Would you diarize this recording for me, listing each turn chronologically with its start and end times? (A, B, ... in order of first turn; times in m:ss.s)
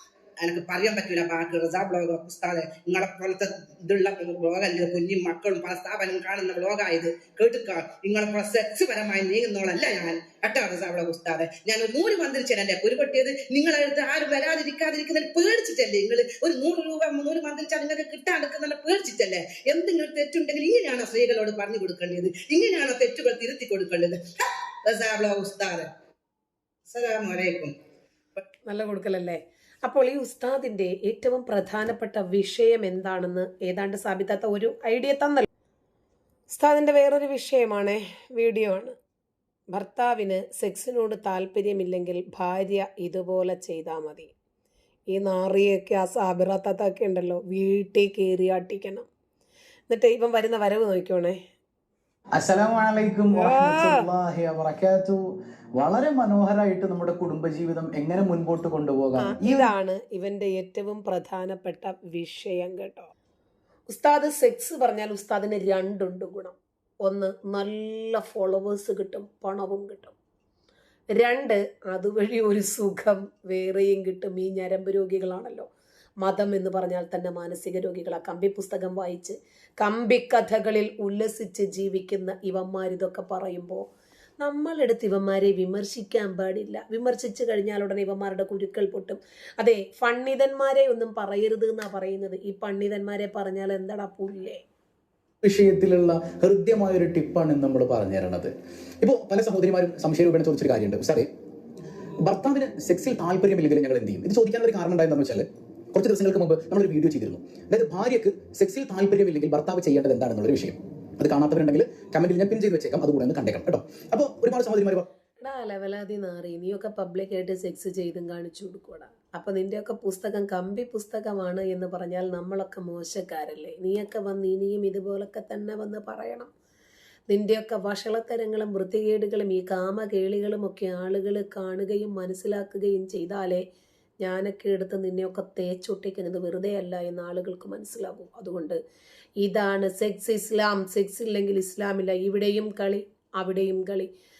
0:00.4-0:24.2 A
0:24.8-0:25.9 A
0:26.9-0:27.7 A
0:28.7-0:35.5 B
0:36.5-0:39.0 B
0:39.7-0:44.3 B
0:45.1-0:49.1 B
0:49.9-0:51.4 B
0:52.4-0:59.7 C
0:53.3-0:54.1 B
0:59.2-1:03.1 B
1:03.9-1:10.1 B
1:11.1-1:15.7 B
1:16.2-1:23.8 B
1:24.4-1:34.6 B
1:35.4-1:41.3 C
1:42.2-1:55.0 C
1:55.4-2:06.5 B
2:07.3-2:13.6 B
2:14.2-2:18.8 B
2:19.4-2:24.1 B